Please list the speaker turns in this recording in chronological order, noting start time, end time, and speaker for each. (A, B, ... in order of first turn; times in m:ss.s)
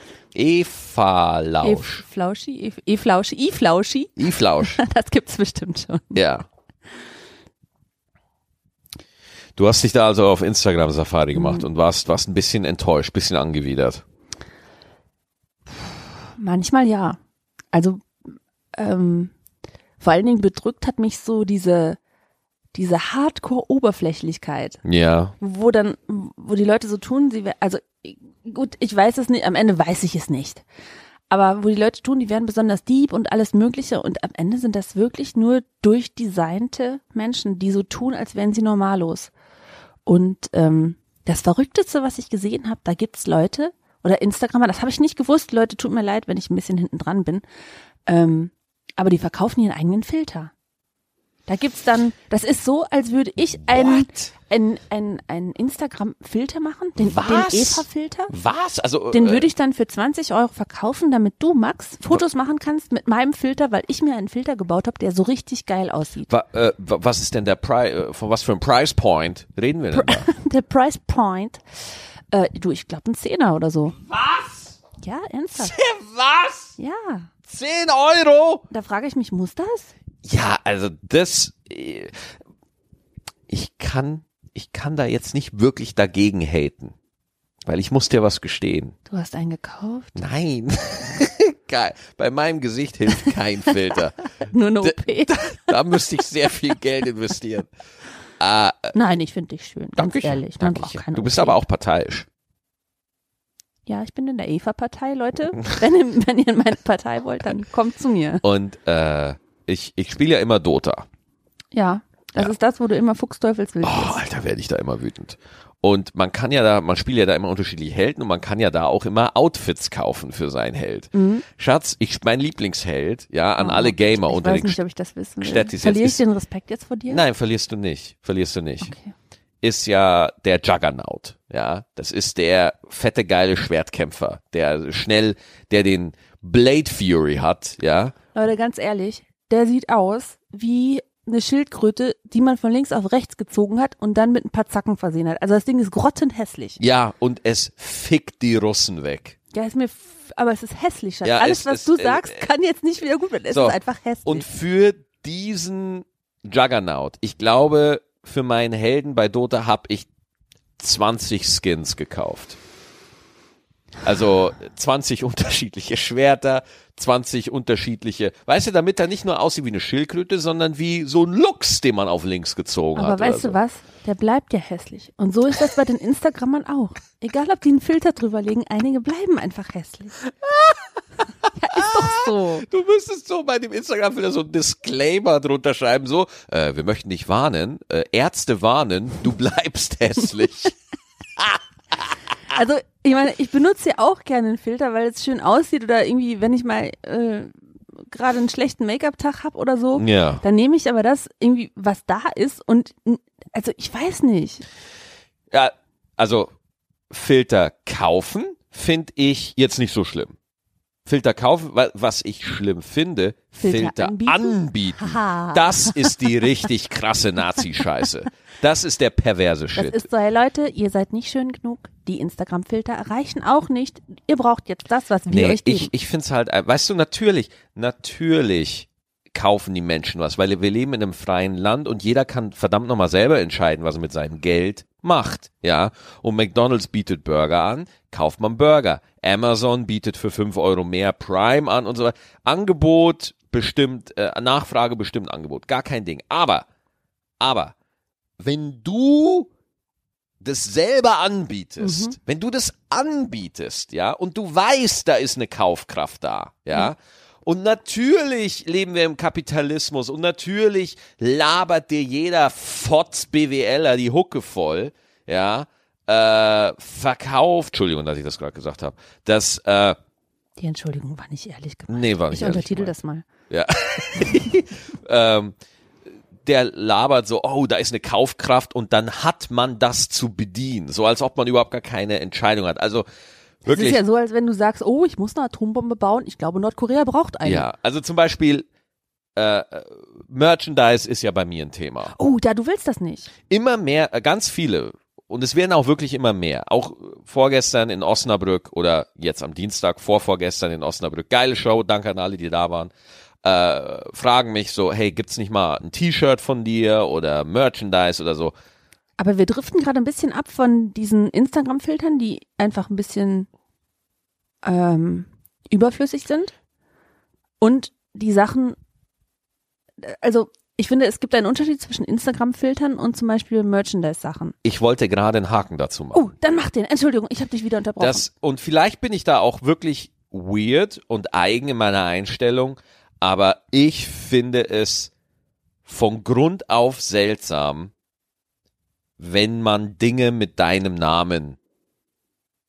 0:00.3-0:02.0 A
0:01.6-0:06.2 B
0:04.2-0:04.8 A
0:06.2-0:06.5 A
0:09.6-0:14.0 A
0:11.3-0:11.7 B
0:16.4-0:17.2 B
0:17.7-0:18.1 B
0:18.8-0:19.3 B
0:20.0-0:22.0 B
0:22.7-0:24.8 B
0:24.8-0:25.3 A
0:25.4-0:30.6 B
0:31.3-0:39.3 B
0:40.1-0:47.4 B
0:48.1-0:50.5 B
0:51.5-0:58.3 B
0:53.7-0:54.3 A
0:57.0-0:59.5 A
0:59.1-1:06.3 B
1:06.3-1:10.3 A
1:09.9-1:14.0 B
1:14.1-1:14.8 A
1:15.0-1:15.7 B
1:15.6-1:16.8 A
1:16.8-1:17.3 B
1:17.5-1:18.6 A
1:18.7-1:19.9 B
1:20.2-1:22.2 A
1:23.5-1:26.9 A
1:27.7-1:29.0 A
1:29.1-1:30.2 B
1:30.2-1:34.3 A
1:34.4-1:35.7 B
1:34.8-1:37.7 A
1:38.4-1:38.9 A
1:38.9-1:41.6 B
1:40.0-1:42.3 A
1:43.9-1:48.4 B
1:48.4-1:51.1 A
1:51.7-1:54.2 B
1:53.8-2:04.8 A
2:01.1-2:01.4 B
2:03.6-2:07.2 B
2:05.4-2:06.2 A
2:07.1-2:08.9 A
2:08.8-2:09.1 B
2:09.6-2:18.1 A
2:18.3-2:26.8 B
2:26.8-2:29.4 A
2:29.5-2:34.4 B
2:31.2-2:32.5 A
2:33.5-2:40.1 A
2:40.8-2:42.6 A
2:44.0-2:53.6 A
2:53.0-3:00.2 B
3:00.4-3:00.8 A
3:01.4-3:10.8 A
3:01.6-3:02.7 B
3:11.4-3:12.1 A
3:12.5-3:24.6 B
3:20.0-3:20.4 A
3:25.5-3:26.5 A
3:27.1-3:30.4 A
3:31.1-3:40.0 A
3:33.6-3:36.3 B
3:39.8-3:45.9 B
3:45.3-4:06.7 A
4:07.4-4:07.7 A
4:08.4-4:09.5 A
4:10.4-4:30.0 A
4:11.8-4:12.2 B
4:30.6-4:33.2 B
4:31.9-4:32.9 A
4:33.5-4:35.6 A
4:36.4-4:43.1 A
4:43.6-4:44.0 A
4:43.7-4:47.7 B
4:47.4-4:48.7 A
4:49.4-4:52.2 A
4:52.1-4:53.3 B
4:53.5-5:02.9 A
5:03.4-5:08.5 A
5:09.2-5:13.5 B
5:14.6-5:16.5 B
5:17.6-5:18.8 B
5:20.0-5:24.6 B
5:24.6-5:26.3 A
5:26.1-5:28.2 B
5:28.0-5:35.1 A
5:35.9-5:37.9 A
5:39.2-5:41.6 A